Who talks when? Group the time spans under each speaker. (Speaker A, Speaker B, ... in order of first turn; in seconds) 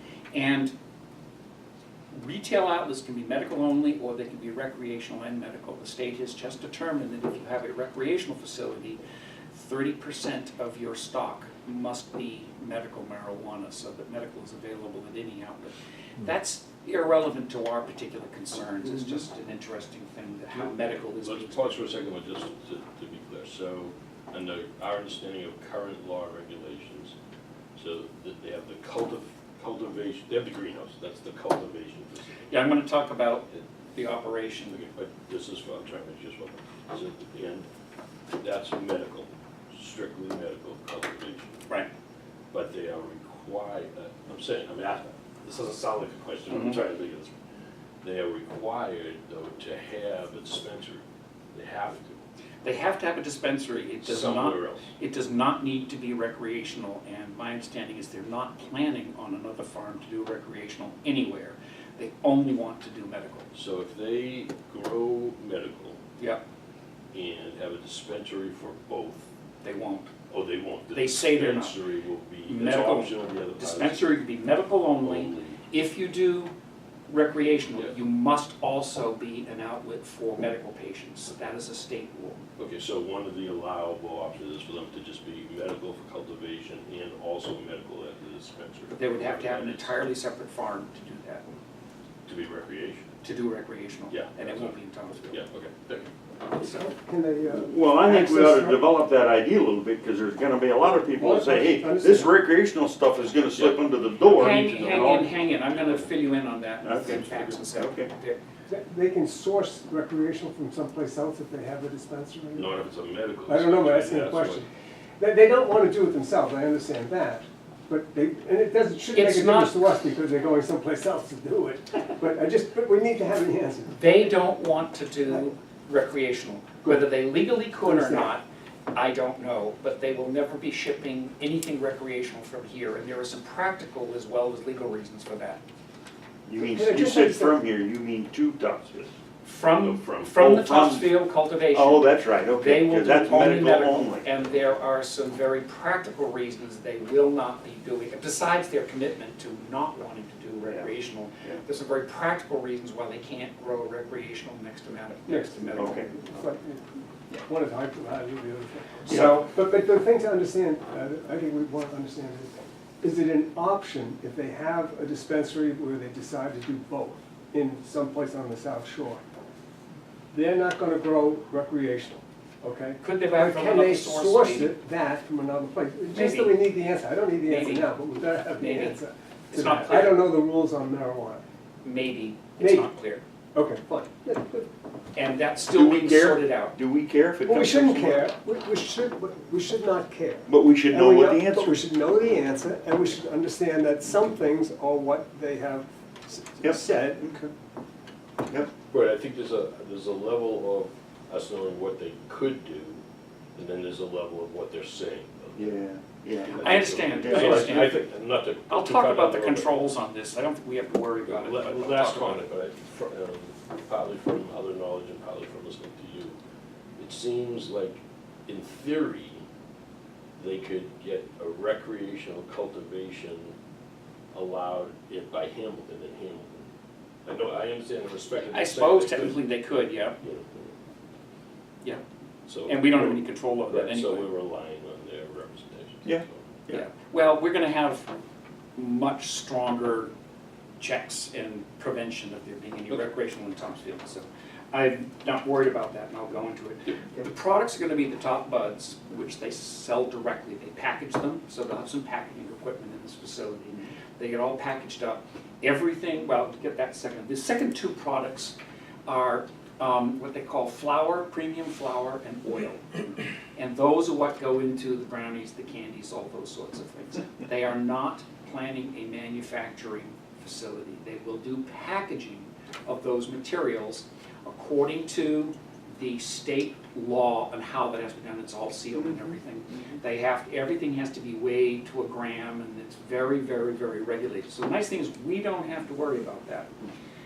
Speaker A: 0.3-0.7, 2.1-9.0, 9.5-21.9, 32.5-34.8, 46.5-46.8, 52.6-63.5, 69.6-70.1, 70.9-71.8, 72.5-76.5, 77.1-82.4, 88.9-91.6, 93.2-95.4, 96.4-96.9, 104.3-108.4, 119.1-119.9, 123.9-135.6, 139.4-156.3, 173.0-174.8, 176.1-176.6, 177.4-179.0, 179.5-180.2, 181.8-183.2, 185.2-186.8, 206.5-208.1, 208.7-212.5, 228.4-230.2, 232.6-234.3, 236.7-238.1, 238.8-240.1, 240.8-286.7
Speaker B: 20.5-27.1, 27.8-32.5, 34.7-37.7, 38.4-41.7, 42.5-47.3, 48.0-52.2, 54.0-54.9, 63.5-66.0, 67.1-69.3, 70.3-74.2, 75.0-75.7, 82.6-90.0, 92.3-93.1, 94.1-94.8, 95.3-96.1, 103.6-106.2, 112.5-114.6, 139.8-140.4, 198.9-203.0, 203.6-205.8, 206.4-209.8, 211.2-216.4, 217.0-219.4, 220.4-223.5, 224.3-226.7, 227.3-229.4, 230.2-230.7, 232.5-236.6
Speaker C: 96.6-98.9, 100.8-102.4, 108.7-112.8, 113.5-114.7, 115.2-124.0, 127.8-128.3, 136.6-137.6, 155.3-169.2, 170.3-181.4, 182.6-182.9, 183.6-184.7, 187.4-197.2
Speaker D: 97.5-105.3, 106.8-108.1, 136.5-139.1, 140.4-141.2, 141.7-144.3, 155.8-156.1, 185.7-188.3, 190.5-191.8, 196.6-197.5, 205.6-207.8, 236.1-236.8